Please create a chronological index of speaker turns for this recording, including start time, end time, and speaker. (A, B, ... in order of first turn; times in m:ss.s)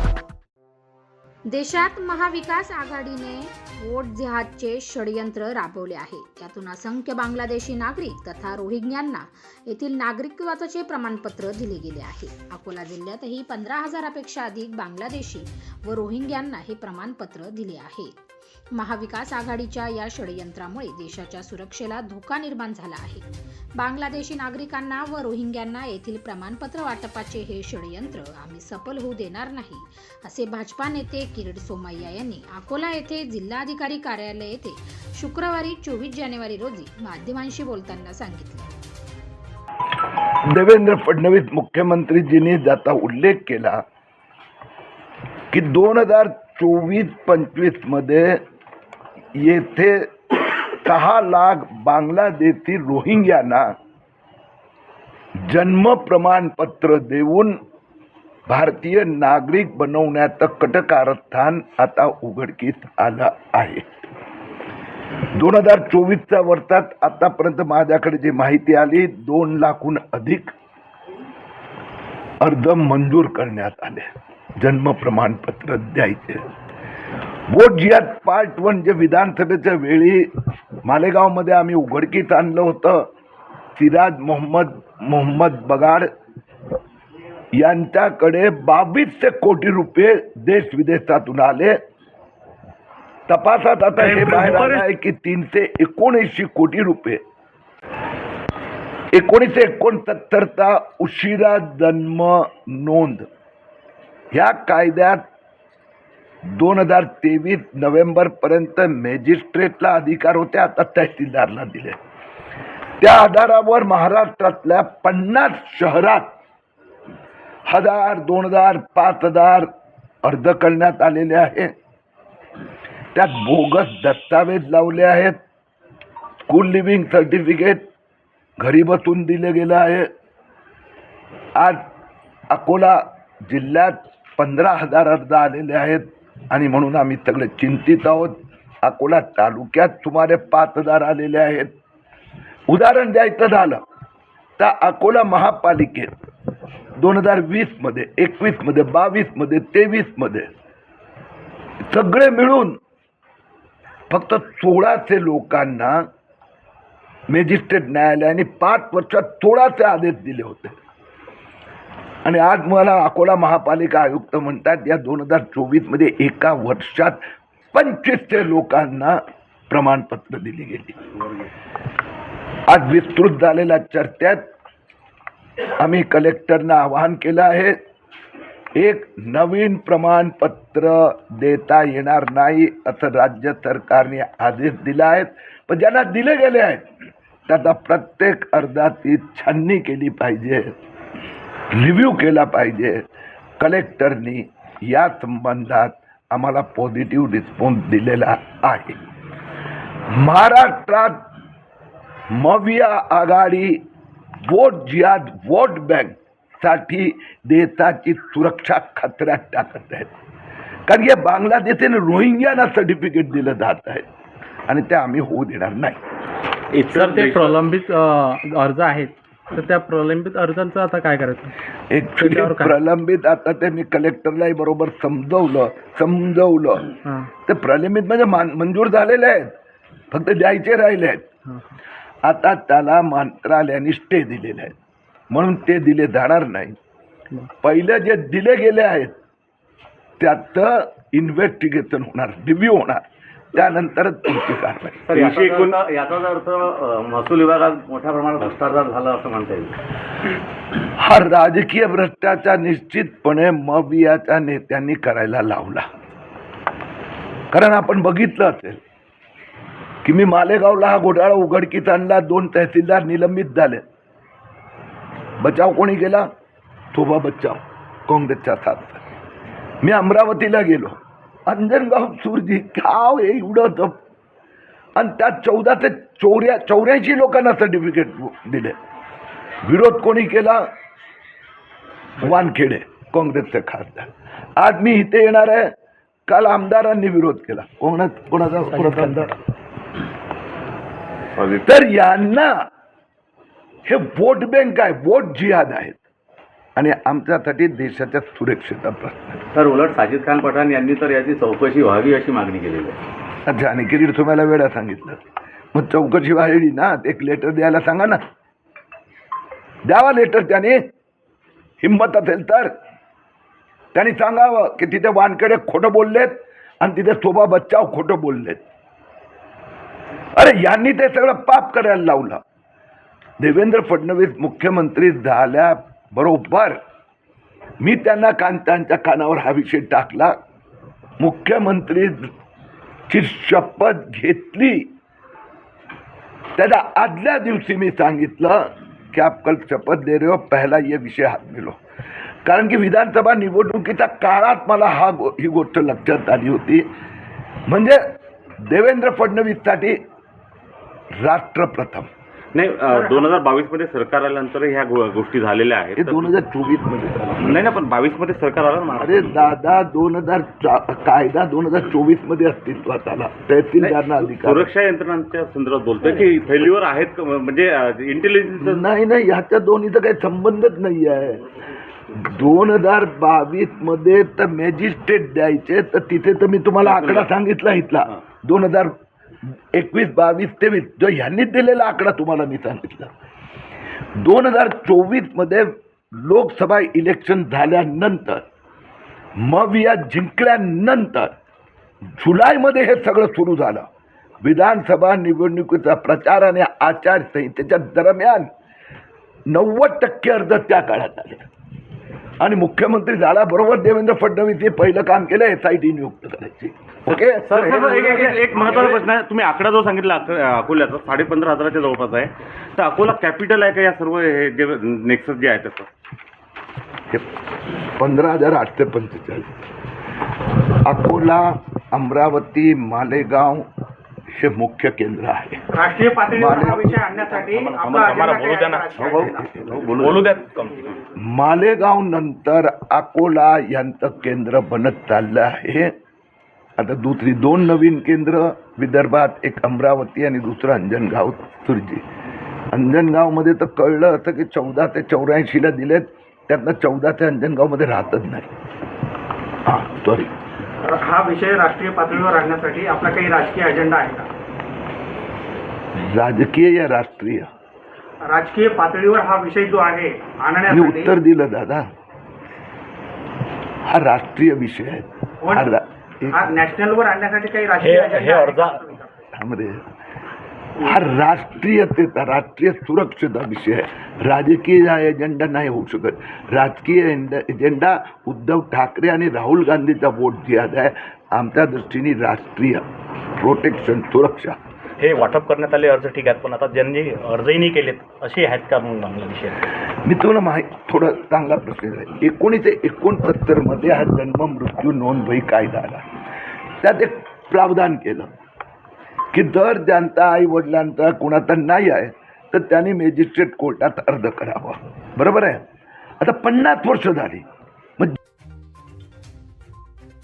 0:01.5-0:18.2 A
0:18.8-0:23.3 A
0:23.8-0:38.7 A
0:40.5-0:43.8 B
0:45.5-0:48.4 B
0:49.4-0:50.1 B
0:50.6-0:53.7 B
0:55.4-0:57.6 B
0:58.5-1:04.1 B
1:05.4-1:10.5 B
1:12.4-1:14.1 B
1:14.6-1:16.4 B
1:17.5-1:20.3 B
1:20.8-1:23.1 B
1:23.8-1:26.1 B
1:27.6-1:31.8 B
1:33.3-1:37.2 B
1:34.0-1:34.8 C
1:39.1-1:43.3 B
1:44.3-1:45.2 B
1:46.5-1:52.0 B
1:53.0-1:56.3 B
1:57.7-1:59.7 B
2:00.2-2:01.7 B
2:03.1-2:05.4 B
2:06.5-2:07.8 B
2:08.6-2:10.1 B
2:11.6-2:11.8 B
2:12.5-2:21.7 B
2:22.7-2:23.8 B
2:24.6-2:26.2 B
2:27.0-2:30.5 B
2:31.9-2:32.8 B
2:34.1-2:36.1 B
2:37.3-2:40.8 B
2:42.2-2:47.2 B
2:47.7-2:51.0 B
2:52.7-2:54.4 B
2:55.6-2:57.8 B
2:58.8-3:06.9 B
3:07.5-3:10.7 B
3:11.7-3:13.0 B
3:13.6-3:19.0 B
3:20.1-3:21.2 B
3:22.3-3:23.8 B
3:24.5-3:30.1 B
3:30.9-3:34.0 B
3:34.7-3:36.0 B
3:36.7-3:37.5 D
3:36.9-3:41.5 C
3:41.9-3:49.5 B
3:42.2-3:42.8 C
3:47.0-3:47.3 C
3:50.1-3:51.3 B
3:52.2-3:54.7 B
3:55.3-3:56.8 B
3:57.6-3:59.2 B
4:00.2-4:05.0 B
4:05.0-4:09.7 E
4:05.1-4:05.8 D
4:11.0-4:15.9 B
4:17.5-4:18.8 B
4:20.0-4:23.8 B
4:25.4-4:26.3 B
4:26.9-4:29.0 B
4:29.8-4:34.0 B
4:35.0-4:38.8 B
4:39.7-4:40.6 B
4:42.2-4:45.7 B
4:46.3-4:49.4 B
4:48.7-4:49.3 C
4:51.4-4:52.5 B
4:53.9-4:56.0 B
4:56.8-4:59.4 B
4:59.5-5:03.0 E
5:03.5-5:05.2 B
5:05.7-5:08.2 B
5:09.9-5:10.8 B
5:11.8-5:12.7 B
5:13.9-5:18.6 B
5:20.4-5:22.4 B
5:23.4-5:26.8 B
5:27.8-5:30.4 B
5:31.2-5:32.3 B
5:33.1-5:34.9 B
5:36.6-5:41.8 B
5:42.4-5:46.9 B
5:47.7-5:48.0 B
5:48.6-5:50.0 B
5:51.2-5:52.1 B
5:52.5-5:56.3 D
5:52.9-5:53.4 F
5:56.0-5:57.6 B
5:57.4-5:59.5 D
5:58.9-6:04.7 B
6:03.8-6:08.8 D
6:08.6-6:11.4 B
6:12.1-6:19.0 B
6:16.8-6:17.3 D
6:19.5-6:23.1 B
6:24.2-6:28.4 B
6:29.4-6:31.3 B
6:32.2-6:33.9 B
6:34.4-6:38.5 B
6:39.5-6:41.4 B
6:42.4-6:47.7 B
6:47.1-6:55.9 D
6:47.5-6:49.0 E
6:57.1-6:59.5 B
7:00.8-7:03.7 B
7:04.4-7:05.6 B
7:05.7-7:10.0 F
7:06.4-7:07.0 B
7:07.2-7:09.0 G
7:07.8-7:08.2 D
7:09.0-7:10.3 E
7:09.7-7:10.0 D
7:10.0-7:10.8 G
7:11.2-7:15.9 B
7:16.8-7:22.0 B
7:22.7-7:28.5 B
7:29.6-7:30.3 B
7:30.8-7:34.3 F
7:36.0-7:37.5 B
7:38.2-7:41.1 F
7:40.7-7:41.9 B
7:43.8-7:46.4 B
7:45.4-7:45.7 F
7:46.3-7:49.2 F
7:47.8-7:48.8 G
7:49.4-7:49.9 B
7:50.8-8:02.8 B
8:03.4-8:04.6 B
8:05.0-8:09.6 G
8:09.9-8:16.1 B
8:16.8-8:18.3 B
8:19.3-8:25.6 B
8:26.2-8:27.4 B